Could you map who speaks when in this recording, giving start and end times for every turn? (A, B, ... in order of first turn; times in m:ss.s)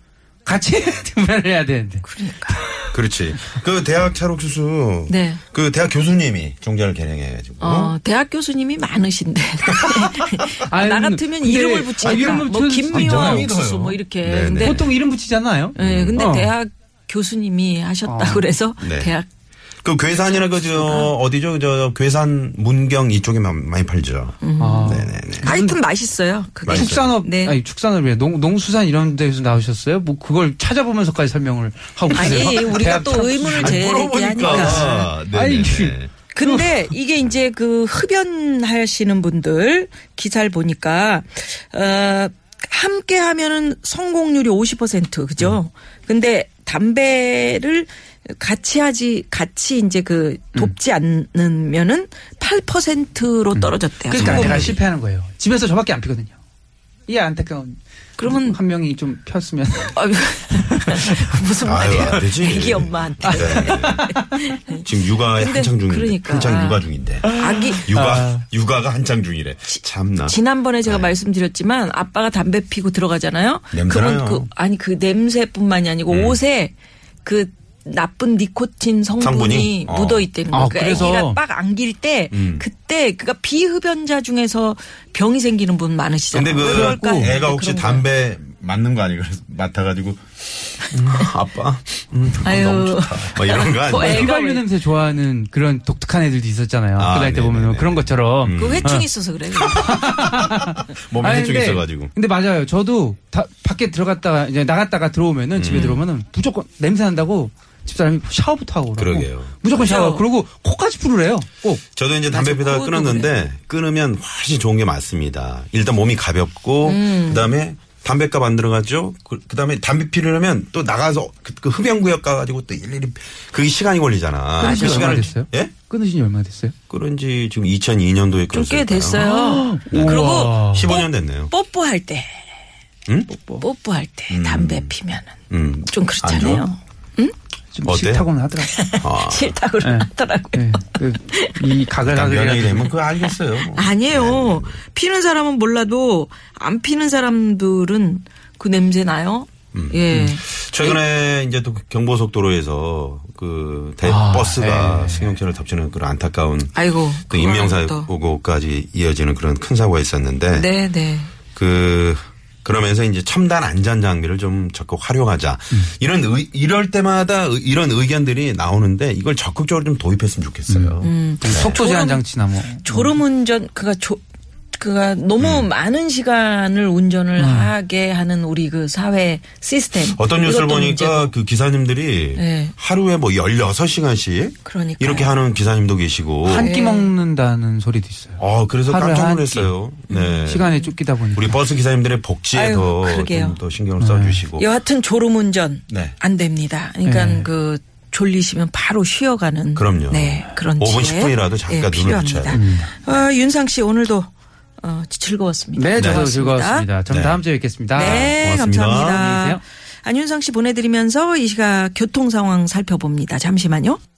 0:00.4-0:02.0 A
0:02.0-0:02.6 B
0:02.6-0:02.9 A
0:02.9-0:08.0 C
0:05.1-0:05.4 B
0:07.6-0:14.9 B
0:09.8-0:10.1 C
0:10.7-0:13.5 A
0:12.0-0:14.9 C
0:14.6-0:16.5 A
0:15.8-0:19.3 B
0:15.8-0:16.2 C
0:18.0-0:18.5 A
0:18.8-0:19.1 C
0:19.8-0:25.5 C
0:20.2-0:21.1 B
0:24.4-0:27.6 B
0:24.6-0:25.8 A
0:26.6-0:27.1 C
0:26.7-0:36.9 A
0:32.1-0:35.0 B
0:32.2-0:32.8 C
0:33.4-0:36.1 C
0:36.3-0:54.8 B
0:53.5-0:56.4 A
0:54.2-0:54.8 C
0:57.1-1:00.0 A
0:58.2-0:58.6 B
0:59.9-1:04.8 B
1:00.6-1:01.1 A
1:01.6-1:04.1 C
1:02.0-1:02.6 A
1:03.2-1:04.2 A
1:04.8-1:11.1 C
1:05.4-1:07.9 B
1:07.2-1:08.4 A
1:09.7-1:16.7 B
1:13.7-1:14.5 C
1:16.1-1:16.4 C
1:17.2-1:28.1 B
1:19.2-1:20.3 C
1:20.5-1:21.4 A
1:22.3-1:22.6 C
1:26.3-1:34.3 C
1:26.6-1:27.3 A
1:32.4-1:34.6 B
1:33.7-1:39.1 A
1:37.0-1:38.9 C
1:38.5-1:40.0 B
1:39.6-1:51.8 A
1:39.7-1:42.1 C
1:45.5-1:46.0 C
1:45.7-1:46.0 B
1:49.0-1:49.8 C
1:49.7-1:50.2 B
1:51.9-2:05.8 C
1:52.3-1:53.3 B
1:56.8-1:57.5 B
2:04.6-2:06.7 A
2:04.6-2:05.3 B
2:06.9-2:09.2 C
2:08.5-2:12.4 B
2:09.2-2:11.0 A
2:09.9-2:11.5 C
2:13.3-2:13.6 A
2:13.6-2:17.3 B
2:14.3-2:14.9 C
2:15.5-2:16.7 C
2:17.7-2:18.7 A
2:17.8-2:18.3 C
2:18.6-2:20.7 B
2:19.0-2:19.5 C
2:19.8-2:22.9 A
2:21.3-2:21.6 B
2:22.0-2:24.8 C
2:23.6-2:31.0 B
2:29.7-2:40.7 C
2:34.0-2:35.4 A
2:36.7-2:38.1 B
2:40.5-2:41.3 B
2:41.5-2:51.8 C
2:50.7-2:53.2 A
2:51.0-2:52.2 B
2:52.8-2:54.2 B
2:54.8-3:01.3 B
2:55.4-2:55.7 C
2:57.4-2:57.7 A
3:00.1-3:06.7 C
3:02.4-3:02.7 B
3:04.6-3:05.3 B
3:06.4-3:09.8 A
3:06.5-3:07.1 B
3:08.4-3:10.7 C
3:10.1-3:10.9 B
3:10.4-3:11.6 A
3:11.3-3:14.7 C
3:12.5-3:13.6 B
3:14.0-3:14.4 A
3:14.6-3:24.3 B
3:15.9-3:16.2 C
3:17.0-3:17.5 A
3:19.8-3:22.6 C
3:22.5-3:22.9 A
3:24.8-3:26.9 B
3:25.8-3:28.3 A
3:26.0-3:26.2 C
3:27.1-3:27.4 C
3:27.9-3:34.0 B
3:28.0-3:29.2 C
3:29.0-3:29.6 A